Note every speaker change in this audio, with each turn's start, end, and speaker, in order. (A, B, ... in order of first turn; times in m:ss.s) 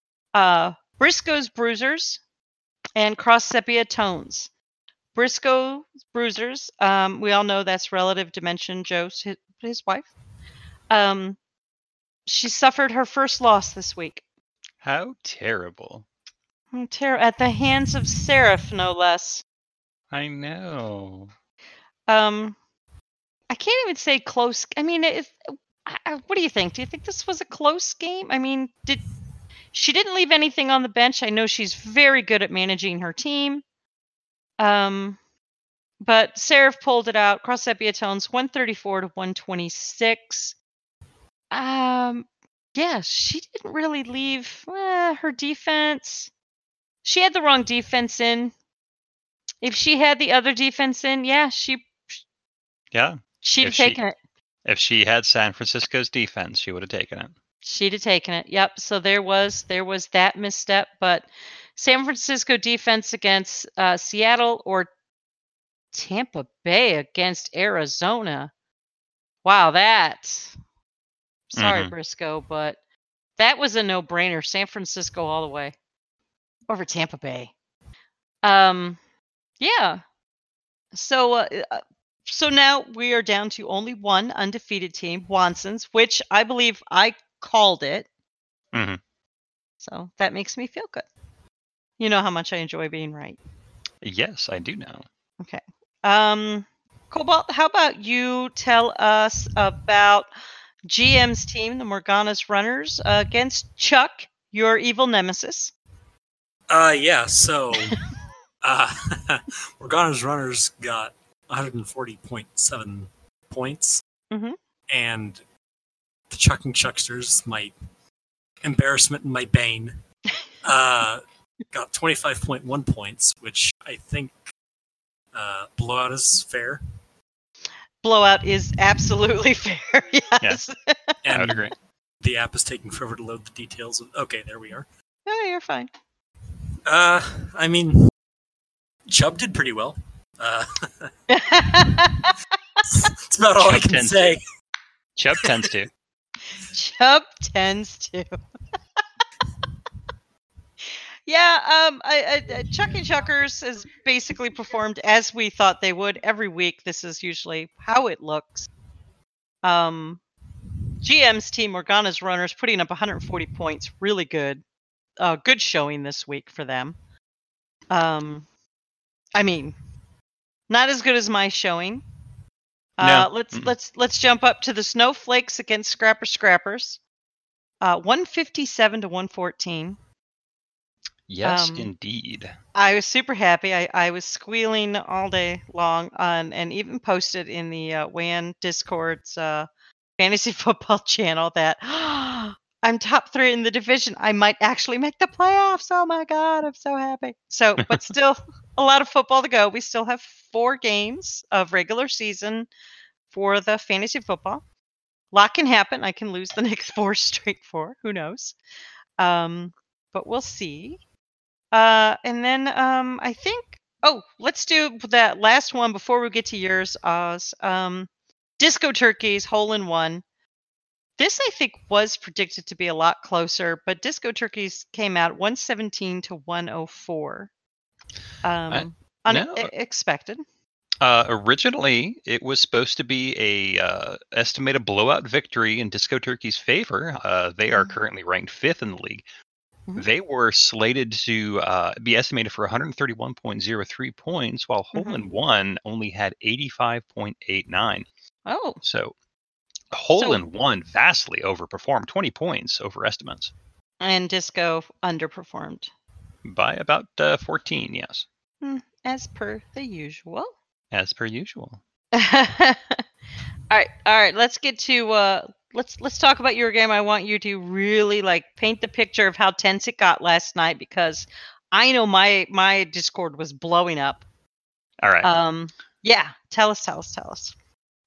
0:00.3-0:02.2 A
0:03.0-0:04.5 A
0:05.1-0:10.1 A
0:10.9-0:11.4 A
0:12.3-0:14.2 A
0:14.8-0:16.1 B
0:16.7-0:19.4 A
0:20.1-0:21.3 B
0:22.1-0:22.6 A
0:23.5-0:29.0 A
0:29.7-0:33.6 A
0:34.6-0:35.2 A
0:36.0-0:40.6 A
0:41.5-0:46.3 A
0:47.0-0:48.5 A
0:49.6-0:52.2 A
0:52.9-0:54.0 B
0:53.4-0:54.2 A
0:54.7-0:57.3 B
0:57.6-1:04.9 A
1:05.9-1:08.5 A
1:09.4-1:10.6 A
1:11.5-1:12.8 A
1:11.6-1:11.9 B
1:13.4-1:15.8 A
1:16.7-1:17.5 A
1:18.4-1:19.0 A
1:19.6-1:20.0 A
1:20.9-1:28.1 A
1:28.7-1:29.0 B
1:29.8-1:31.1 A
1:32.0-1:33.4 A
1:34.0-1:35.1 B
1:35.4-1:40.3 A
1:40.8-1:45.7 A
1:46.7-1:48.0 C
1:48.6-1:54.0 C
1:54.3-1:54.6 A
1:54.9-1:55.4 C
1:56.3-1:57.7 C
1:58.6-2:00.0 C
2:00.6-2:04.4 C
2:05.3-2:06.8 C
2:08.0-2:11.2 A
2:11.2-2:11.7 C
2:11.3-2:11.7 B
2:12.2-2:14.9 C
2:15.3-2:15.9 A
2:16.9-2:18.1 C
2:19.1-2:21.1 C
2:21.3-2:22.3 A
2:22.9-2:24.4 C
2:23.6-2:24.4 B
2:25.2-2:25.9 B
2:26.7-2:28.4 A
2:31.3-2:38.7 A
2:39.6-2:40.2 A
2:41.0-2:44.6 A
2:45.2-2:47.0 A
2:47.9-2:48.5 A
2:49.4-2:49.7 A
2:50.7-2:52.0 A
2:53.0-2:57.0 A
2:53.0-2:53.7 B
2:57.8-3:00.0 A
3:01.3-3:02.6 B
3:01.4-3:01.9 A
3:02.8-3:22.7 A
3:23.3-3:24.6 A
3:25.3-3:28.6 A
3:29.2-3:31.0 A
3:31.7-3:38.1 A
3:38.6-3:40.2 A
3:41.2-3:47.5 A
3:48.4-3:50.4 A
3:48.7-3:49.7 B
3:51.0-3:59.2 B
4:00.0-4:08.1 B
4:04.9-4:05.2 A
4:08.5-4:08.8 A
4:08.8-4:09.1 B
4:09.9-4:13.5 B
4:10.2-4:10.4 A
4:14.0-4:15.9 A
4:16.4-4:18.3 B
4:18.6-4:20.6 A
4:20.9-4:21.8 B
4:22.1-4:23.0 A
4:23.7-4:34.2 A
4:35.0-4:35.3 B
4:35.2-4:37.5 A